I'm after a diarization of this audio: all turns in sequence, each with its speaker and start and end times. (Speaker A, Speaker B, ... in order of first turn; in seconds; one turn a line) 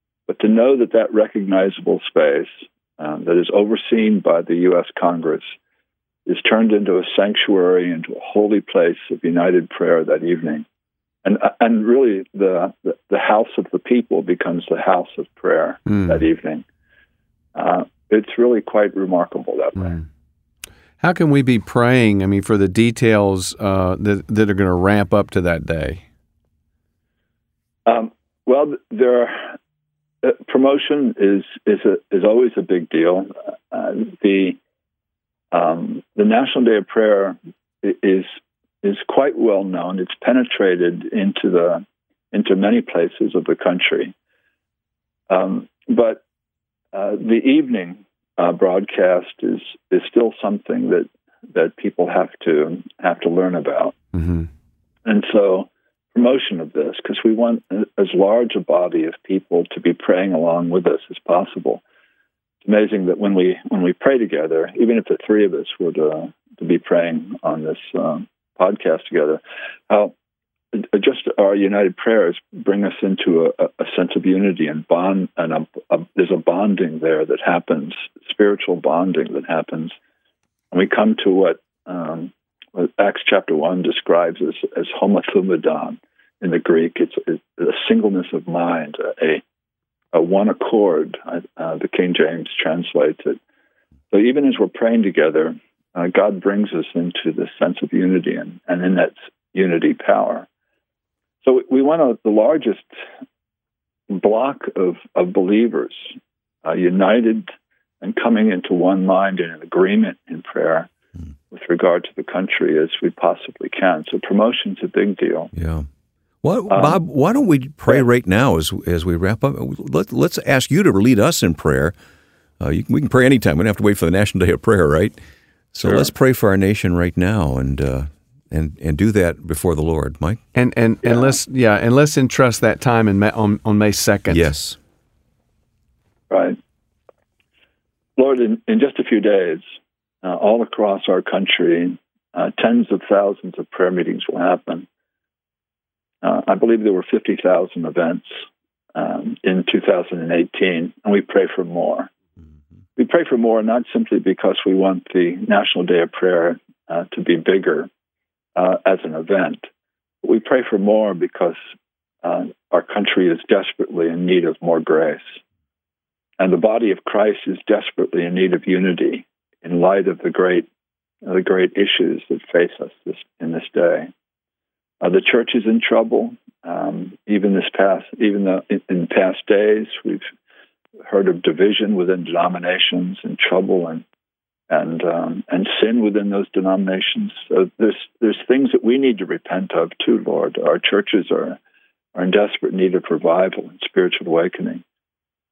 Speaker A: 0.3-5.5
Speaker A: 6.2-10.7
Speaker A: 11.2-16.6
Speaker B: 15.9-16.2
Speaker A: 17.5-20.0
Speaker B: 21.0-26.0
Speaker A: 27.9-29.5
Speaker A: 30.2-34.6
Speaker A: 35.5-38.3
Speaker A: 38.8-44.1
Speaker A: 45.3-46.2
Speaker A: 46.9-54.0
Speaker B: 54.1-54.5
Speaker A: 55.0-61.8
Speaker A: 62.6-70.1
Speaker A: 70.7-79.9
Speaker A: 80.7-89.4
Speaker A: 90.1-93.4
Speaker A: 94.1-100.5
Speaker A: 101.4-102.9
Speaker A: 104.1-106.1
Speaker A: 106.6-107.5
Speaker A: 108.0-110.9
Speaker A: 111.5-115.5
Speaker C: 115.5-115.9
Speaker C: 116.4-122.0
Speaker A: 116.7-117.0
Speaker C: 122.6-125.2
Speaker C: 125.7-130.4
Speaker A: 125.8-126.1
Speaker B: 130.5-134.5
Speaker A: 131.1-131.3
Speaker C: 134.3-134.8
Speaker A: 136.3-136.6
Speaker A: 138.2-139.6
Speaker A: 140.2-144.8
Speaker A: 146.2-148.3
Speaker A: 148.9-152.1
Speaker A: 152.9-157.9
Speaker A: 158.6-159.7
Speaker A: 160.2-161.6
Speaker A: 162.2-165.4
Speaker A: 166.4-170.7
Speaker A: 171.2-174.1
Speaker A: 175.0-180.2
Speaker A: 181.1-184.0
Speaker A: 184.7-191.6
Speaker A: 192.1-194.8